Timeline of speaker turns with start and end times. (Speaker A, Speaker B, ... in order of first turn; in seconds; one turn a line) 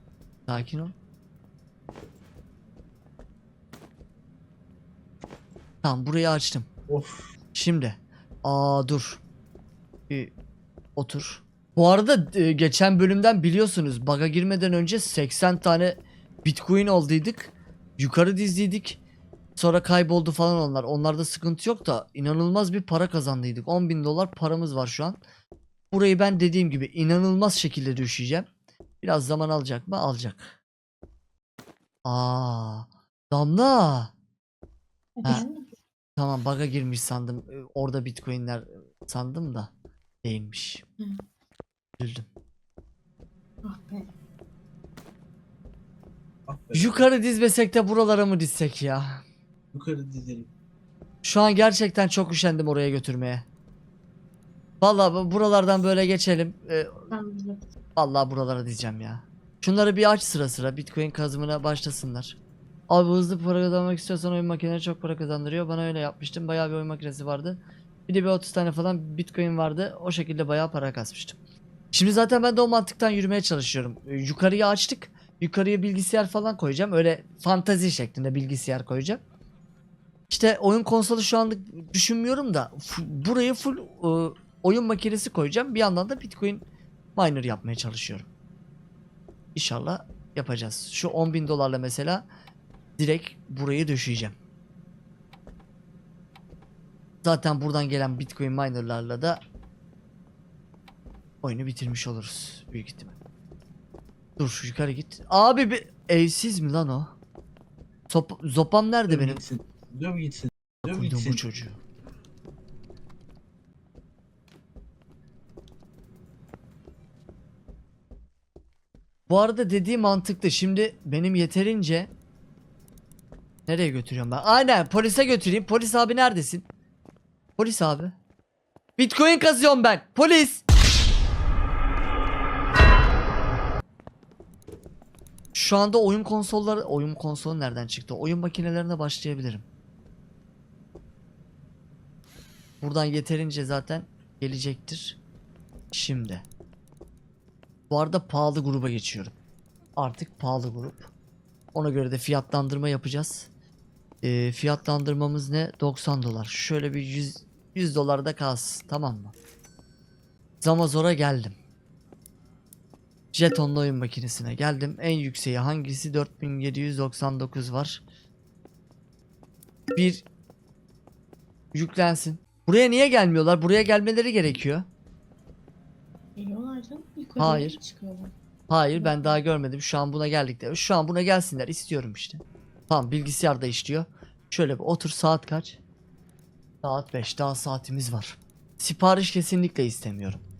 Speaker A: 0.5-0.9
Speaker A: 5.8-6.7
Speaker B: 6.9-7.3
Speaker A: 7.5-9.2
Speaker A: 11.0-19.0
Speaker A: 19.6-25.2
Speaker A: 25.9-28.5
Speaker A: 29.0-30.5
Speaker A: 32.0-34.1
Speaker C: 35.2-35.7
Speaker A: 36.2-39.7
Speaker A: 40.2-40.8
Speaker A: 42.0-42.3
Speaker C: 43.6-44.1
Speaker B: 46.5-47.0
Speaker A: 46.7-49.2
Speaker B: 49.7-50.5
Speaker A: 51.2-53.4
Speaker A: 54.8-56.9
Speaker C: 57.1-57.7
Speaker A: 58.0-62.4
Speaker A: 62.9-71.4
Speaker A: 71.9-79.2
Speaker A: 80.3-86.7
Speaker A: 87.2-88.3
Speaker A: 89.5-92.2
Speaker A: 93.0-94.3
Speaker A: 97.2-99.4
Speaker A: 101.4-103.1
Speaker A: 104.4-107.1
Speaker A: 108.1-109.4
Speaker B: 109.1-111.4
Speaker A: 110.9-111.8
Speaker A: 119.3-122.1
Speaker A: 123.7-126.7
Speaker A: 127.6-128.1
Speaker A: 129.0-130.6
Speaker A: 135.5-139.6
Speaker A: 142.8-145.2
Speaker A: 145.9-146.4
Speaker A: 147.9-149.3
Speaker A: 150.0-151.1
Speaker A: 151.7-153.5
Speaker A: 154.2-159.3
Speaker A: 160.6-161.6
Speaker A: 163.3-168.0
Speaker A: 170.0-170.2
Speaker A: 171.7-174.9
Speaker C: 176.4-178.3
Speaker A: 177.4-177.8
Speaker A: 178.7-185.8
Speaker C: 178.9-179.4
Speaker A: 186.8-190.4